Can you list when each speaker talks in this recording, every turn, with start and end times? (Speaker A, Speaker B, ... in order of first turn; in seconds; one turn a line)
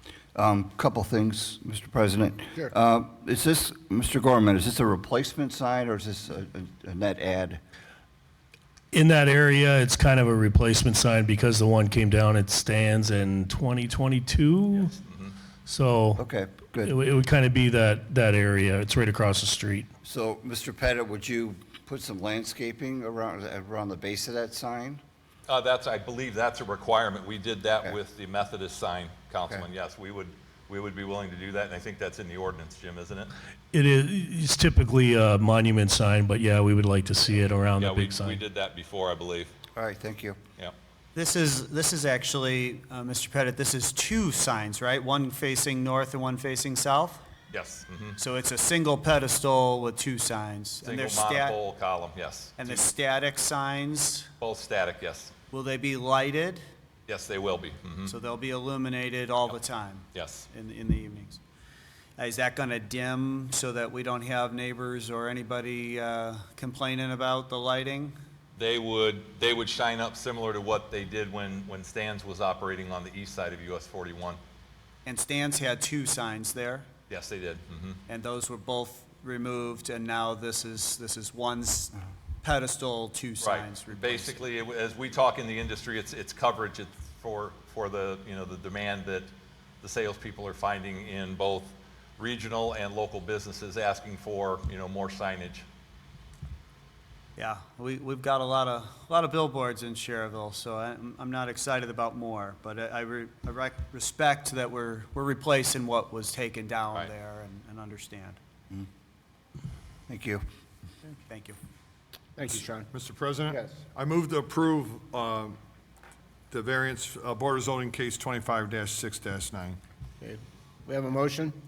Speaker A: 0.3-7.6
Speaker B: 8.9-14.9
Speaker C: 14.7-15.3
Speaker B: 15.7-16.2
Speaker A: 16.2-17.0
Speaker B: 16.8-19.9
Speaker A: 20.0-25.0
Speaker C: 25.5-33.3
Speaker B: 33.7-38.4
Speaker C: 37.8-39.5
Speaker A: 39.8-40.4
Speaker D: 41.1-47.2
Speaker C: 47.5-48.2
Speaker D: 48.2-51.6
Speaker C: 50.8-52.9
Speaker D: 52.6-54.3
Speaker C: 54.4-55.3
Speaker D: 55.5-56.6
Speaker C: 57.1-58.1
Speaker D: 58.1-61.4
Speaker C: 60.1-60.5
Speaker D: 62.2-68.2
Speaker C: 68.6-74.4
Speaker D: 75.1-76.9
Speaker C: 77.1-78.0
Speaker D: 78.1-84.5
Speaker C: 83.4-89.3
Speaker C: 89.8-95.7
Speaker D: 97.4-108.4
Speaker A: 110.1-110.4
Speaker D: 111.3-111.6
Speaker E: 112.4-112.9
Speaker F: 112.9-115.6
Speaker E: 113.5-113.8
Speaker F: 116.5-119.8
Speaker E: 120.2-121.6